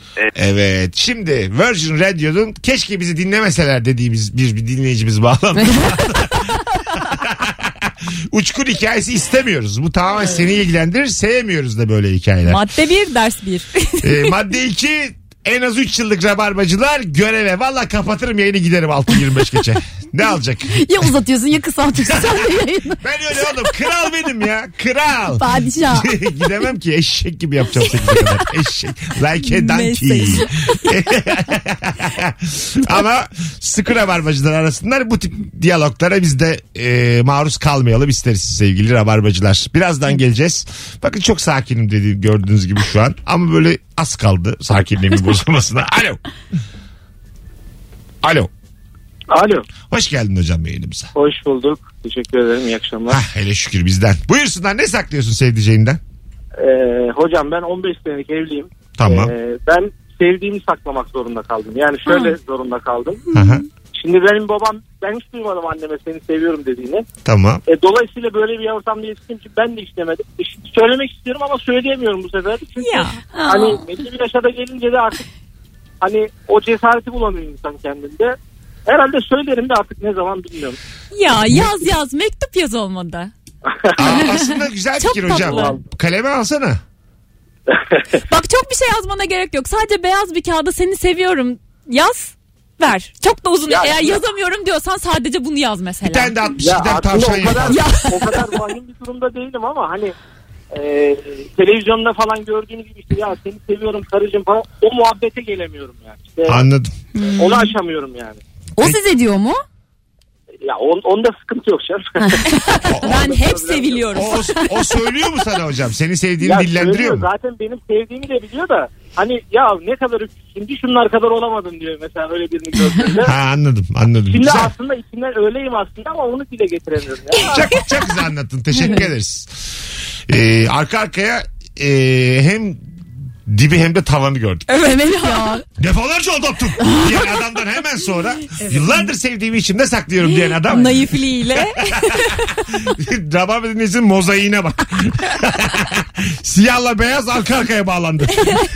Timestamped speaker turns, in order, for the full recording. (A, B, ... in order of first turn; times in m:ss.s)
0:00.3-0:12.6 A
0:05.7-0:06.0 B
0:12.4-0:14.3 C
0:14.0-0:21.1 A
0:20.7-0:23.0 B
0:22.1-0:46.2 A
0:25.3-0:26.1 B
0:29.4-0:30.9 C
0:48.2-0:48.5 A
0:49.3-0:49.6 D
0:49.9-0:51.1 A
0:51.1-0:53.2 D
0:53.1-0:56.0 A
0:56.6-1:03.2 D
0:59.0-0:59.3 A
1:02.1-1:02.3 C
1:03.3-1:03.6 C
1:03.3-1:03.6 A
1:03.9-1:07.0 D
1:07.2-1:07.6 A
1:07.7-1:15.2 D
1:12.8-1:13.8 C
1:16.0-1:18.3 D
1:18.8-1:20.8 D
1:21.1-1:23.3 C
1:23.7-1:24.1 D
1:24.0-1:26.8 A
1:24.0-1:25.8 C
1:28.2-1:36.4 C
1:33.7-1:34.2 D
1:36.0-1:37.8 A
1:36.6-1:40.1 D
1:37.7-1:38.6 C
1:40.7-1:46.6 D
1:46.5-1:46.9 A
1:47.1-1:47.7 C
1:47.4-1:48.4 D
1:48.8-1:49.6 B
1:50.6-1:54.2 D
1:52.4-1:55.1 C
1:52.8-1:53.2 A
1:54.1-1:57.3 A
1:56.4-2:03.3 D
2:03.2-2:04.7 A
2:04.3-2:07.8 D
2:07.5-2:09.7 A
2:08.8-2:09.0 B
2:10.3-2:12.9 A
2:13.5-2:14.7 A
2:14.7-2:15.6 C
2:14.8-2:15.6 B
2:15.8-2:21.2 A
2:16.8-2:17.2 B
2:20.6-2:22.6 C
2:21.9-2:28.6 A